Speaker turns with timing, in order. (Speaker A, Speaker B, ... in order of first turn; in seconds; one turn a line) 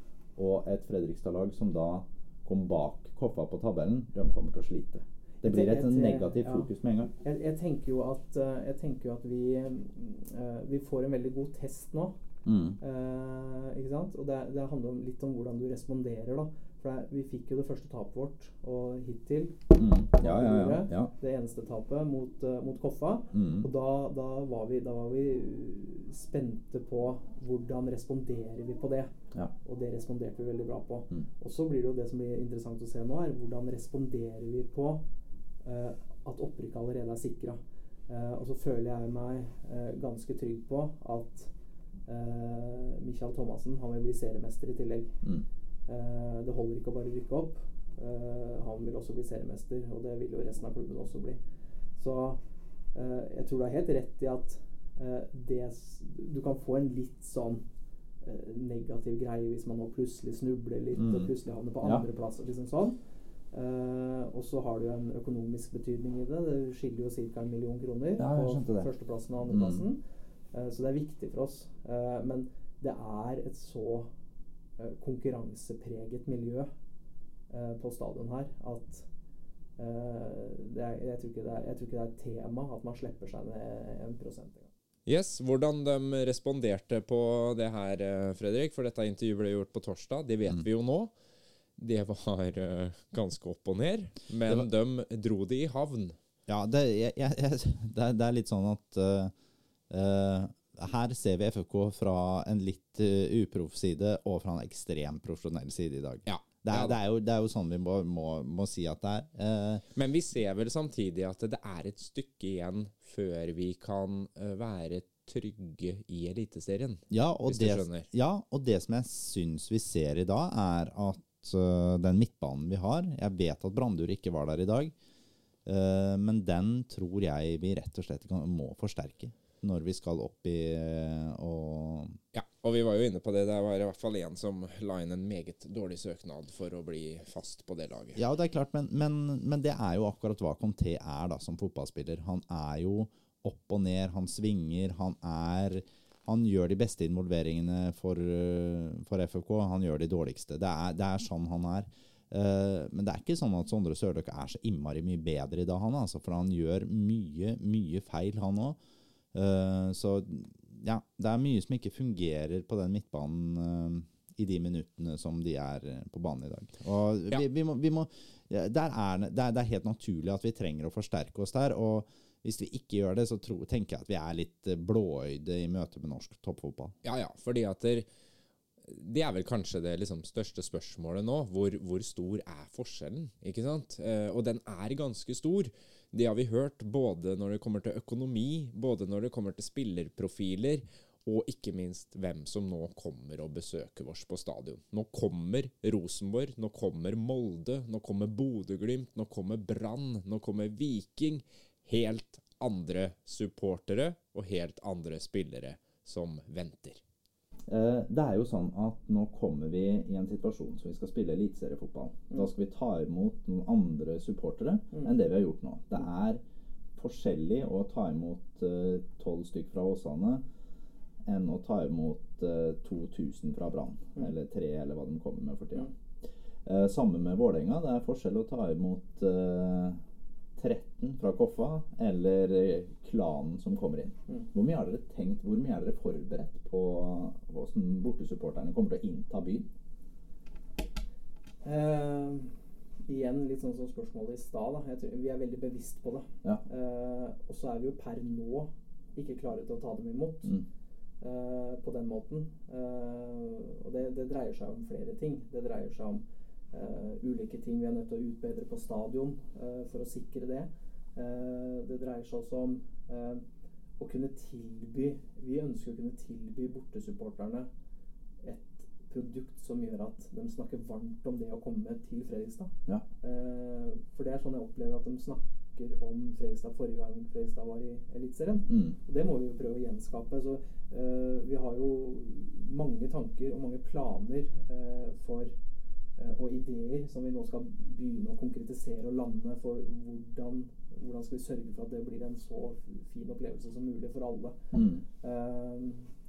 Speaker A: 0.3-7.1
Speaker B: 5.4-6.7
Speaker B: 7.2-12.2
Speaker A: 12.4-12.8
Speaker B: 12.8-19.6
Speaker A: 19.7-21.1
Speaker B: 20.2-29.1
Speaker A: 23.3-23.7
Speaker B: 29.6-35.0
Speaker B: 35.6-41.5
Speaker B: 42.1-45.1
Speaker B: 45.9-51.4
Speaker B: 52.0-52.4
Speaker B: 52.9-57.6
Speaker B: 58.2-63.0
Speaker A: 61.0-61.3
Speaker B: 63.5-70.0
Speaker A: 68.2-68.9
Speaker A: 69.5-69.8
Speaker B: 70.5-74.1
Speaker B: 74.8-76.7
Speaker B: 77.5-79.0
Speaker B: 79.8-84.7
Speaker C: 85.0-91.1
Speaker C: 91.8-96.2
Speaker A: 96.5-99.3
Speaker A: 99.9-109.8
Speaker C: 106.3-107.0
Speaker C: 109.9-118.1
Speaker A: 117.1-124.9
Speaker A: 125.6-132.2
Speaker C: 132.3-138.2
Speaker A: 138.1-158.8
Speaker A: 159.3-176.9
Speaker C: 177.0-178.1
Speaker C: 178.8-207.0
Speaker A: 207.7-216.4
Speaker A: 216.9-220.4
Speaker A: 221.2-230.0
Speaker A: 230.6-239.7
Speaker B: 241.6-242.5
Speaker B: 243.1-250.5
Speaker B: 251.2-263.4
Speaker B: 264.0-267.7
Speaker B: 268.4-285.5
Speaker A: 278.7-278.9
Speaker B: 286.2-294.7
Speaker A: 294.7-295.0
Speaker B: 295.2-296.1